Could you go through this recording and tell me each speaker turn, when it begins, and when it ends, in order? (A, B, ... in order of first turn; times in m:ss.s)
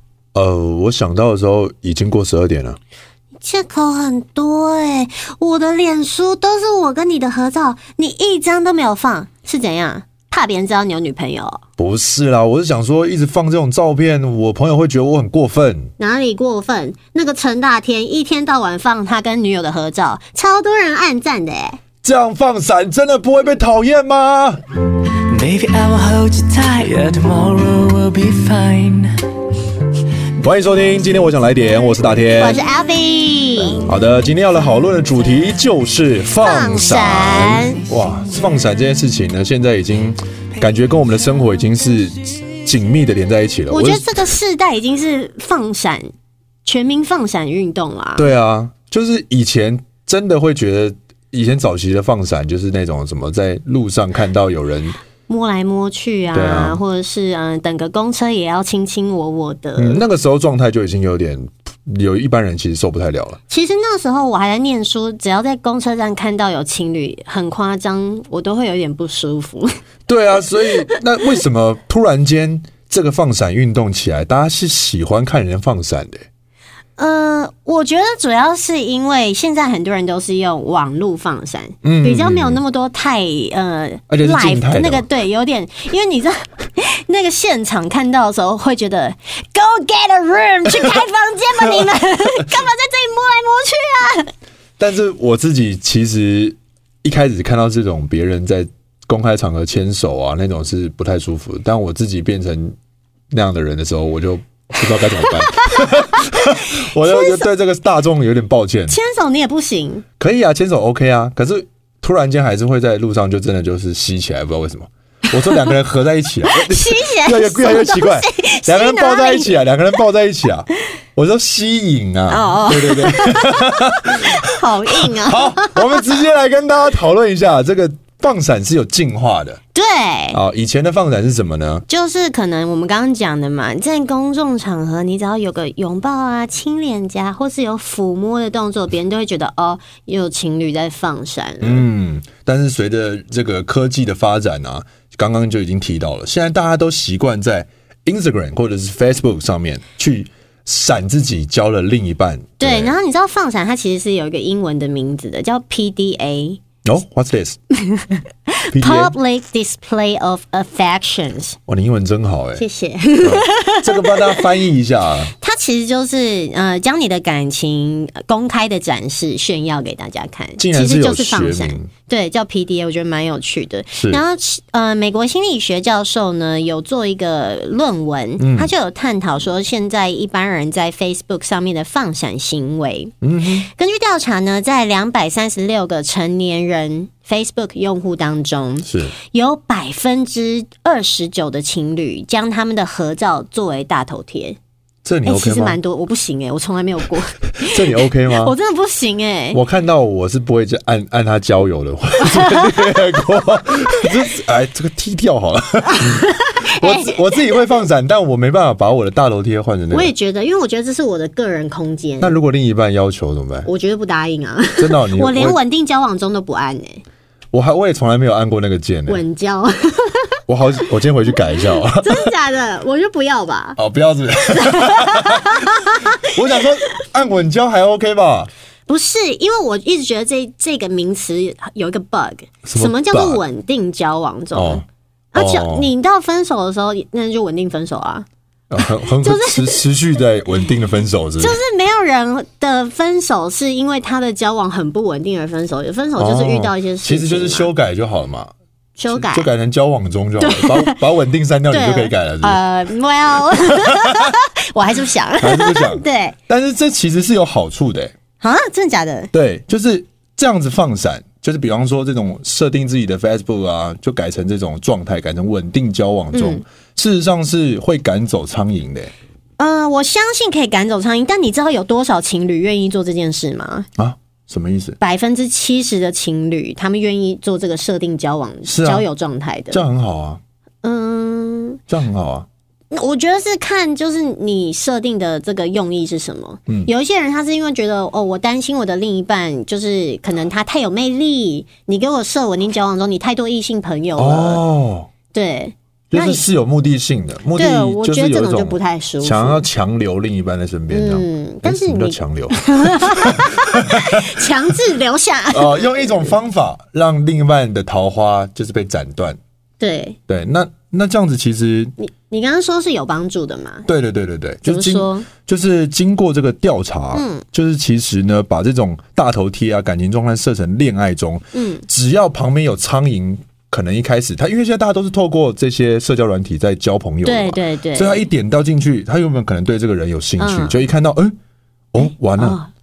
0:00.4-0:02.8 A
0:03.4-0:11.6 B
0:11.8-0:15.9 A
0:16.0-0:21.8 B
0:22.0-0:24.6 A
0:25.3-0:29.2 C
0:30.4-0:32.6 A
0:32.4-0:33.9 B
0:33.8-0:44.1 A
0:36.4-0:37.8 B
0:43.7-0:46.1 B
0:46.6-0:48.3 B
0:48.2-0:55.0 A
0:55.3-1:00.0 B
0:56.3-0:56.8 A
0:59.8-1:03.4 A
1:03.5-1:09.7 B
1:10.1-1:16.2 A
1:17.0-1:34.3 B
1:21.8-1:22.6 A
1:24.1-1:25.1 A
1:34.8-1:42.8 A
1:43.3-1:49.0 A
1:45.2-1:47.5 B
1:48.9-1:50.0 B
1:50.2-2:09.6 A
1:56.5-1:59.6 B
2:02.3-2:06.0 B
2:09.7-2:10.4 B
2:10.3-2:11.8 A
2:11.9-2:21.9 B
2:21.6-2:33.0 A
2:32.6-2:36.6 B
2:36.8-2:37.6 A
2:37.8-2:41.6 B
2:38.7-2:39.2 A
2:41.7-2:42.6 A
2:42.6-2:44.5 B
2:43.2-2:45.3 A
2:45.4-3:14.6 B
2:50.6-2:51.9 A
2:53.9-2:54.2 A
2:58.4-2:58.7 A
3:03.2-3:03.7 A
3:08.8-3:09.1 A
3:15.0-3:15.8 A
3:15.3-3:19.6 B
3:17.6-3:18.5 A
3:19.5-3:30.1 A
3:22.2-3:22.9 B
3:25.9-3:27.5 B
3:29.9-3:32.4 B
3:32.2-3:33.7 A
3:33.6-3:37.0 B
3:34.8-3:35.6 A
3:37.5-3:39.2 A
3:39.1-3:40.4 B
3:40.5-3:42.3 A
3:42.0-3:43.8 B
3:43.8-3:48.5 A
3:44.5-3:46.4 B
3:48.9-3:58.3 B
3:52.6-3:53.4 A
3:54.5-3:55.9 A
3:58.7-4:01.6 A
3:59.2-3:59.8 B
4:01.4-4:07.7 B
4:06.2-4:08.5 A
4:09.0-4:09.5 B
4:09.1-4:12.6 A
4:10.4-4:11.0 B
4:11.7-4:16.4 B
4:13.9-4:14.4 A
4:15.4-4:18.2 A
4:18.4-4:19.3 B
4:19.3-4:29.1 A
4:26.3-4:26.6 B
4:29.6-4:33.9 B
4:34.0-4:35.0 A
4:35.0-4:39.8 B
4:38.7-4:39.0 A
4:39.7-4:40.4 A
4:40.8-4:41.8 B
4:41.9-4:42.5 A
4:42.9-4:54.6 B
4:54.2-4:55.1 A
4:55.3-4:56.4 B
4:56.1-5:04.4 A
4:57.6-4:59.7 B
5:00.9-5:06.3 B
5:05.5-5:09.4 A
5:09.8-5:10.2 B
5:10.3-5:11.9 A
5:12.0-5:13.9 B
5:13.9-5:31.4 A
5:14.7-5:15.3 B
5:17.1-5:17.4 B
5:21.5-5:21.8 B
5:27.2-5:28.2 B
5:30.4-5:30.8 B
5:31.9-5:32.6 A
5:32.0-5:32.7 B